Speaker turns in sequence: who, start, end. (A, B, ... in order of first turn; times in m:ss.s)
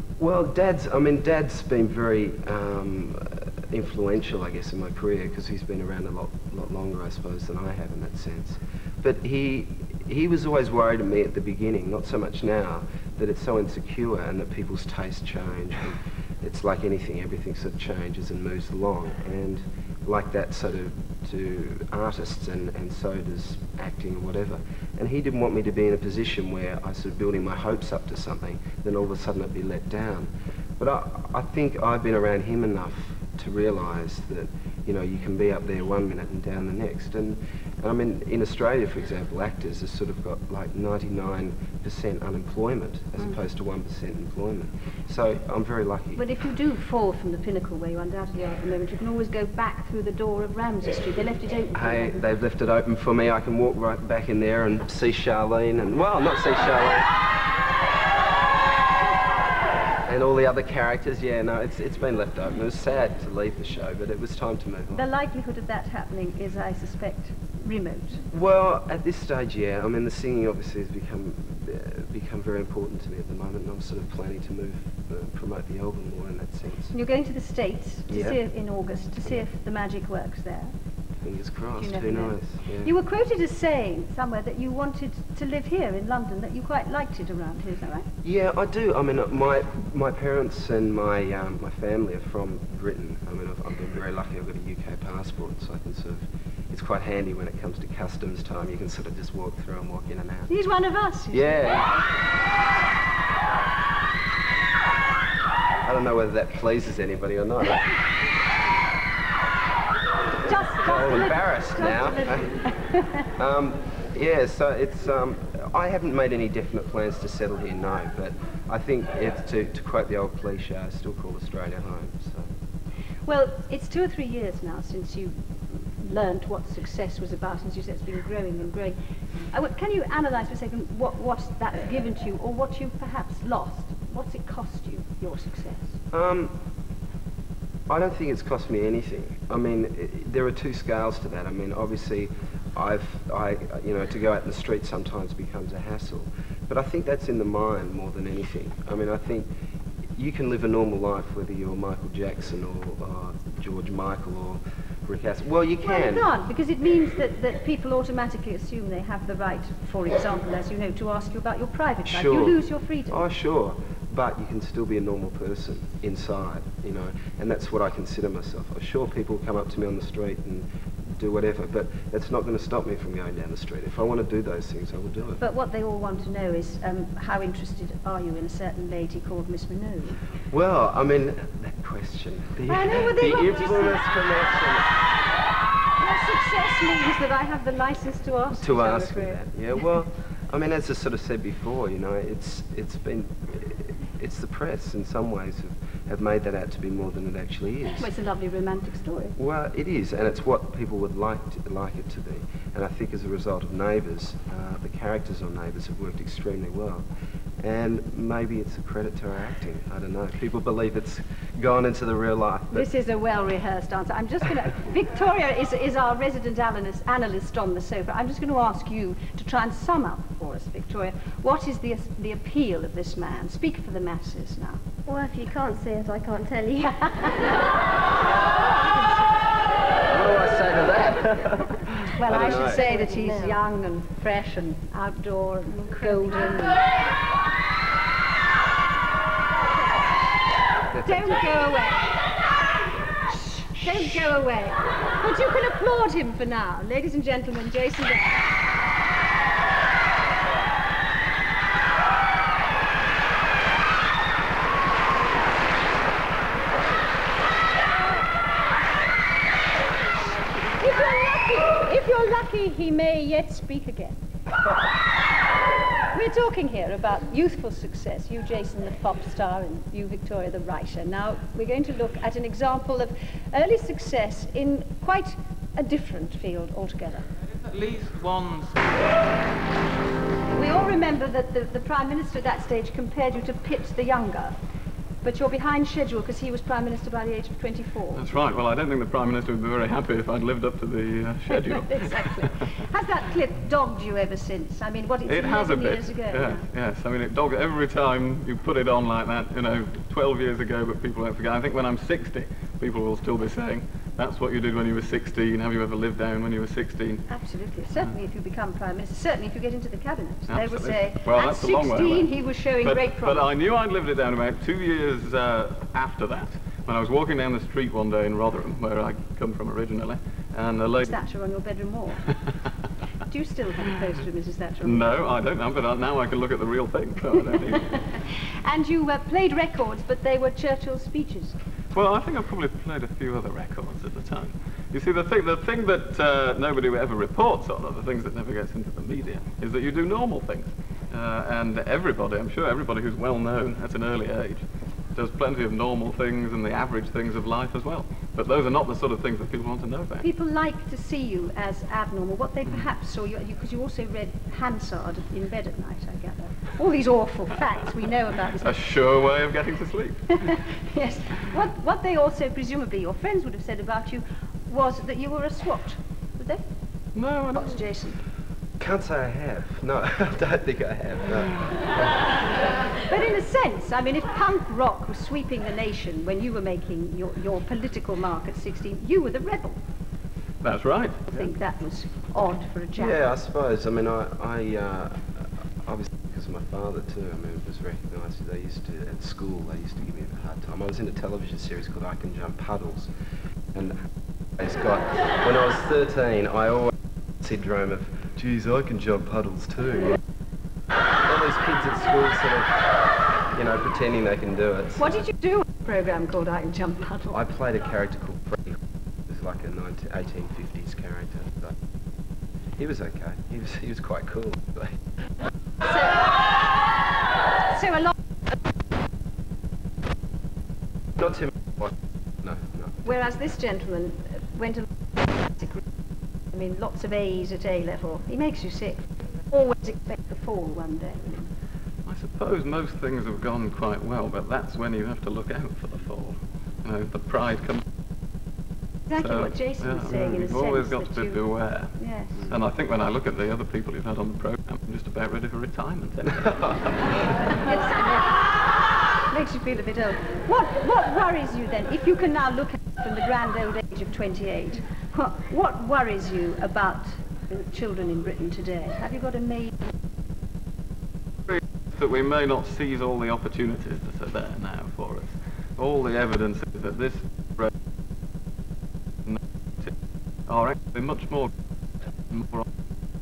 0:00.2-0:46.2 A
0:46.2-0:52.2 B
0:51.7-0:57.1 A
1:00.1-1:05.0 A
1:04.9-1:08.2 B
1:08.3-1:16.9 A
1:16.9-1:20.7 B
1:18.1-1:18.4 A
1:21.2-1:22.9 A
1:21.8-1:28.1 B
1:28.2-1:40.5 A
1:40.5-1:41.5 B
1:41.3-1:41.9 A
1:45.8-1:47.9 A
1:50.4-1:53.3 B
1:50.8-1:52.5 A
1:53.4-2:02.5 A
2:03.2-2:09.0 B
2:09.5-2:16.0 B
2:16.1-2:16.5 A
2:17.9-2:29.5 A
2:30.2-2:36.3 A
2:35.8-2:43.2 B
2:42.1-2:42.6 A
2:43.1-2:55.4 A
2:55.4-3:00.2 B
3:00.5-3:04.9 A
3:02.7-3:04.0 B
3:06.0-3:09.4 B
3:08.6-3:18.1 A
3:18.0-3:19.4 B
3:19.4-3:27.0 A
3:27.6-3:32.9 A
3:32.7-3:44.8 B
3:45.0-3:47.5 C
3:48.6-3:49.2 B
3:50.1-3:52.8 A
3:52.0-3:56.8 B
3:52.3-3:53.6 C
3:55.7-3:56.7 C
4:00.9-4:01.6 A
4:01.0-4:02.2 B
4:03.3-4:08.5 B
4:20.6-4:24.2 B
4:26.1-4:37.2 B
4:37.6-4:39.0 D
4:40.5-4:44.5 B
4:45.2-4:48.3 B
4:48.1-4:52.8 D
4:51.5-4:56.6 B
4:55.2-5:07.2 D
5:07.3-5:13.5 B
5:10.5-5:12.3 D
5:12.8-5:21.2 D
5:21.0-5:22.3 B
5:23.3-5:25.1 B
5:24.8-5:28.0 D
5:27.5-5:31.6 B
5:31.9-5:50.2 D
5:50.2-5:58.8 B
5:58.6-6:00.6 D
6:00.3-6:06.6 B
6:07.1-6:07.7 D
6:07.5-6:08.2 B
6:08.8-6:12.1 A
6:13.1-6:19.8 B
6:20.6-6:21.4 D
6:21.3-6:23.2 B
6:23.0-6:33.1 A
6:33.7-6:34.0 A
6:34.6-6:40.2 A
6:41.2-6:42.9 A
6:43.5-6:45.2 A
6:45.0-6:47.4 B
6:47.3-6:51.8 A
6:52.8-6:55.0 A
6:57.7-6:58.1 B
7:01.2-7:02.9 A
7:03.0-7:05.8 B
7:06.5-7:11.5 B
7:12.0-7:17.8 D
7:19.1-7:21.4 B
7:19.2-7:27.4 D
7:22.0-7:22.5 B
7:27.4-7:28.4 B
7:29.3-7:39.9 B
7:41.5-7:47.7 D
7:49.2-7:49.9 D
7:50.5-7:51.5 D
7:52.3-7:52.6 D